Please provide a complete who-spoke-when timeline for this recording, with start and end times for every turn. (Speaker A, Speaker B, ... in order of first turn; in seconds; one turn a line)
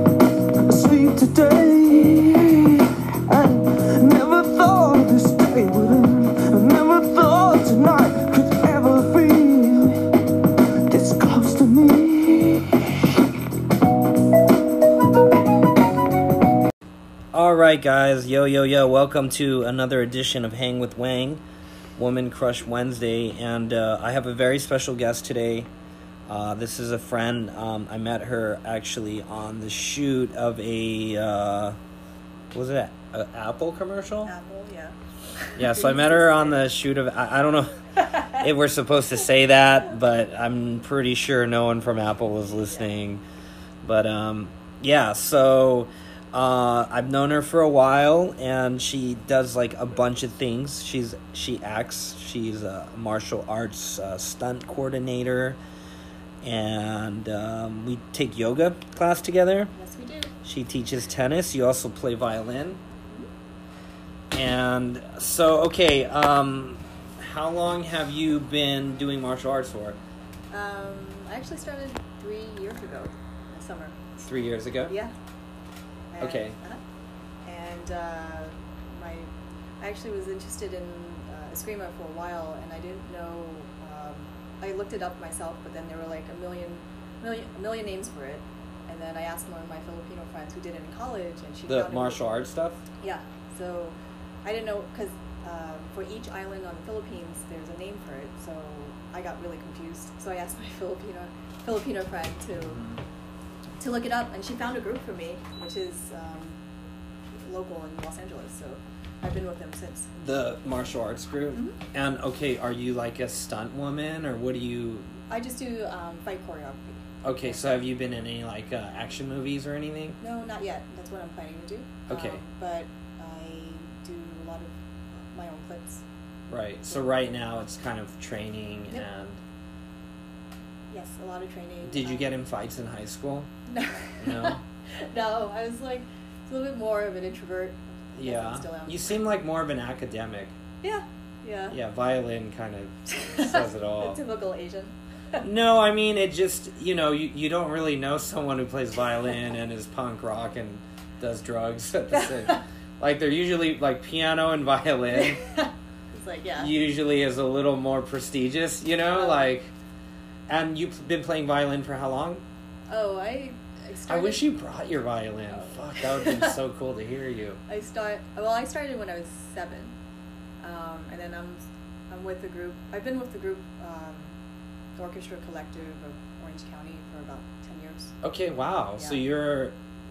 Speaker A: 0.6-10.1
Speaker A: 10.9-13.1
Speaker B: 17.3-21.4
Speaker B: 22.0-25.7
Speaker B: 26.3-31.8
Speaker B: 32.5-34.3
Speaker C: 34.2-36.6
Speaker B: 35.5-43.2
Speaker C: 38.0-38.4
Speaker C: 42.5-42.9
Speaker B: 43.8-55.6
Speaker B: 56.4-59.7
Speaker C: 59.7-60.3
Speaker B: 60.4-62.8
Speaker B: 64.3-70.0
Speaker C: 70.5-74.0
Speaker B: 74.2-74.9
Speaker C: 74.9-75.1
Speaker C: 76.1-76.8
Speaker B: 76.2-76.6
Speaker C: 77.4-92.2
Speaker B: 91.7-92.8
Speaker C: 93.0-102.8
Speaker B: 102.7-103.0
Speaker C: 103.8-106.6
Speaker C: 107.5-110.1
Speaker B: 110.2-115.1
Speaker C: 111.5-111.8
Speaker C: 115.3-117.8
Speaker B: 117.2-120.2
Speaker C: 120.2-126.0
Speaker B: 122.1-122.4
Speaker B: 126.5-129.4
Speaker C: 130.9-132.3
Speaker B: 131.8-133.5
Speaker C: 133.7-139.1
Speaker B: 134.2-134.6
Speaker B: 138.2-140.6
Speaker C: 140.8-141.8
Speaker B: 141.7-144.2
Speaker C: 143.1-145.4
Speaker B: 145.4-155.4
Speaker C: 152.1-152.6
Speaker C: 155.1-156.7
Speaker B: 156.6-159.7
Speaker C: 159.1-159.5
Speaker B: 160.5-162.4
Speaker C: 162.9-164.5
Speaker B: 164.1-167.6
Speaker C: 165.5-166.6
Speaker C: 167.7-169.9
Speaker C: 170.6-174.3
Speaker C: 175.0-178.1
Speaker B: 178.2-179.7
Speaker C: 179.0-179.2